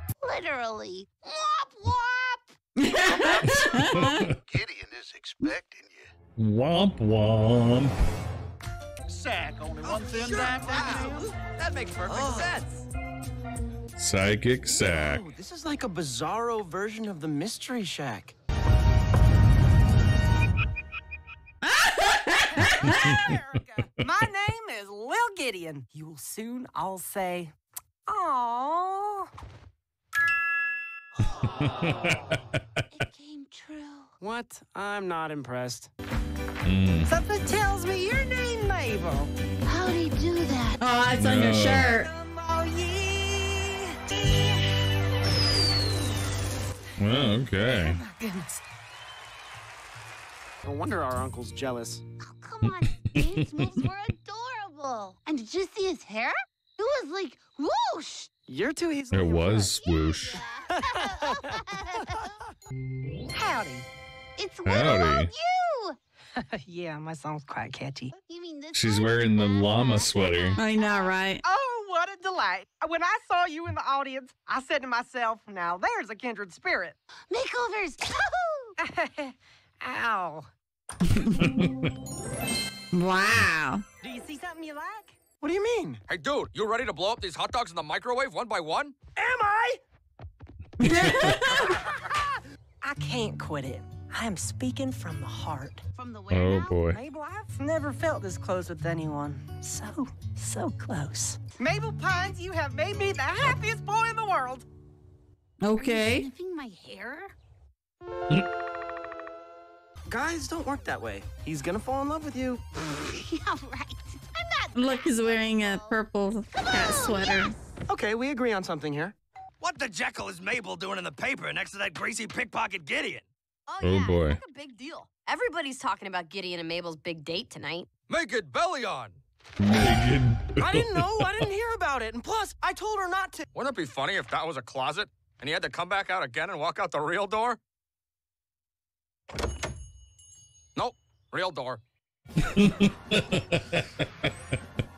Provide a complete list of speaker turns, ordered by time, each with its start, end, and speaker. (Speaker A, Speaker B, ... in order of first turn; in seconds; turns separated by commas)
Speaker A: 0.2-2.5, Speaker B: 2.8-4.2, Speaker C: 3.0-6.1, Speaker D: 3.9-4.3, Speaker D: 6.4-8.0, Speaker C: 9.1-11.3, Speaker E: 9.8-12.7, Speaker F: 11.9-12.6, Speaker D: 14.0-15.3, Speaker F: 14.8-18.3, Speaker B: 21.6-23.1, Speaker G: 22.7-27.5, Speaker D: 22.9-23.2, Speaker G: 28.1-29.3, Speaker D: 31.4-32.4, Speaker A: 32.9-34.1, Speaker F: 34.2-35.9, Speaker D: 36.6-37.2, Speaker G: 37.1-39.3, Speaker A: 39.6-40.8, Speaker B: 40.8-42.1, Speaker D: 41.2-41.9, Speaker G: 42.0-44.3, Speaker D: 47.0-48.0, Speaker G: 47.7-48.6, Speaker F: 50.6-52.0, Speaker A: 52.2-58.3, Speaker D: 52.6-53.7, Speaker F: 58.5-59.7, Speaker D: 59.1-60.4, Speaker A: 59.7-62.4, Speaker F: 60.7-61.6, Speaker G: 63.3-63.9, Speaker A: 64.4-66.0, Speaker D: 64.7-65.3, Speaker G: 66.4-68.2, Speaker A: 68.2-71.2, Speaker D: 68.7-70.6, Speaker B: 70.6-71.4, Speaker G: 71.4-77.0, Speaker A: 77.3-78.8, Speaker G: 78.8-80.5, Speaker B: 81.1-81.4, Speaker D: 81.4-81.9, Speaker B: 82.9-83.8, Speaker G: 84.0-85.2, Speaker F: 85.3-86.0, Speaker E: 86.1-89.0, Speaker F: 89.2-89.8, Speaker B: 90.8-91.8, Speaker D: 90.8-91.6, Speaker G: 92.8-95.8, Speaker A: 95.9-96.8, Speaker D: 96.3-97.0, Speaker G: 96.8-104.7, Speaker B: 105.6-106.3, Speaker A: 105.8-107.3, Speaker F: 110.1-112.6, Speaker A: 112.8-116.0, Speaker B: 114.7-117.5, Speaker A: 116.5-117.5, Speaker F: 117.9-119.2, Speaker E: 119.6-123.3, Speaker H: 123.7-127.9, Speaker D: 123.8-124.4, Speaker E: 128.1-129.2, Speaker D: 129.6-131.5, Speaker F: 130.6-133.5, Speaker E: 133.5-137.6, Speaker E: 140.8-141.8, Speaker D: 142.4-144.3